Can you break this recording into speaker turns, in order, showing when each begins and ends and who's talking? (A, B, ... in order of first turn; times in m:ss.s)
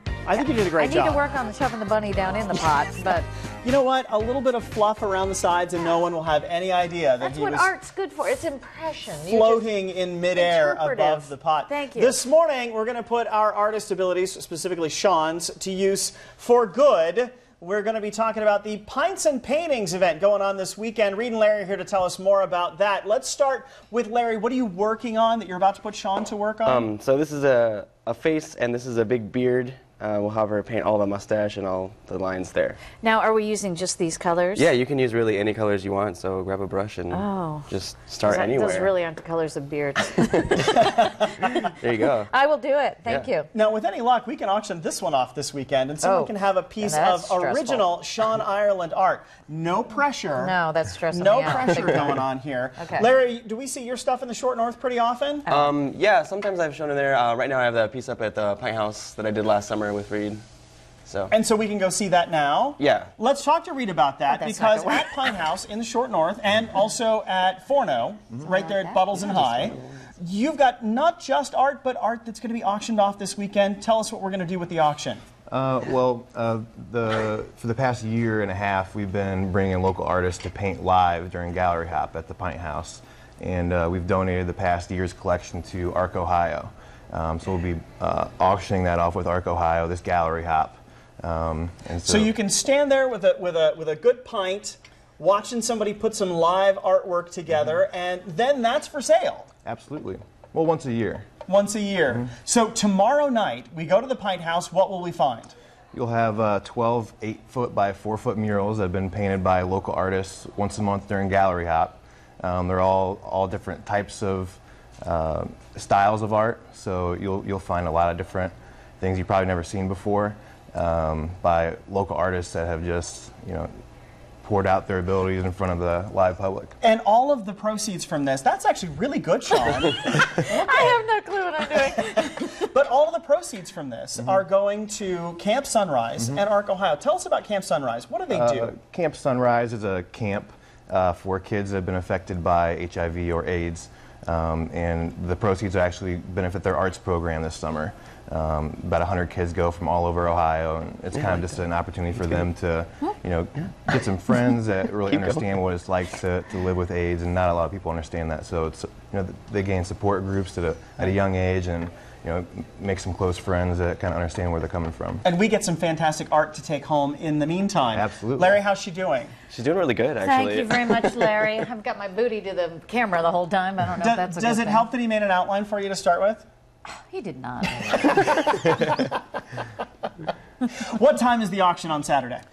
0:00.2-0:01.2 A
0:00.4-0:03.3 B
0:03.6-0:07.7 A
0:07.2-0:09.7 B
0:09.3-0:26.9 A
0:10.3-0:12.2 B
0:26.6-0:32.8 C
0:33.0-0:34.7 B
0:34.6-0:38.9 C
0:37.1-0:37.7 B
0:38.2-0:40.8 B
0:41.8-0:42.3 C
0:42.3-0:43.5 B
0:43.5-0:50.6 A
0:46.0-0:47.9 B
0:50.4-0:52.2 B
0:51.1-0:55.5 A
0:52.8-0:53.1 B
0:55.5-1:00.4 C
1:01.1-1:01.3 C
1:01.3-1:15.2 A
1:02.8-1:03.1 C
1:04.3-1:05.4 B
1:08.5-1:09.1 B
1:09.2-1:09.9 C
1:15.5-1:32.3 D
1:32.1-1:39.5 A
1:39.6-1:41.3 D
1:41.5-1:45.6 A
1:45.9-2:03.7 D
2:04.4-2:06.8 D
2:06.8-2:11.0 A
2:10.4-2:12.7 B
2:12.3-2:18.7 A
2:18.3-2:45.2 D
2:35.0-2:35.4 C
2:45.2-2:49.3 A
2:47.9-2:48.6 D
2:49.5-2:51.4 C
2:50.2-2:54.9 B
2:54.0-2:56.5 A
2:56.9-2:58.5 B
2:58.1-2:58.8 A
3:00.8-3:02.4 A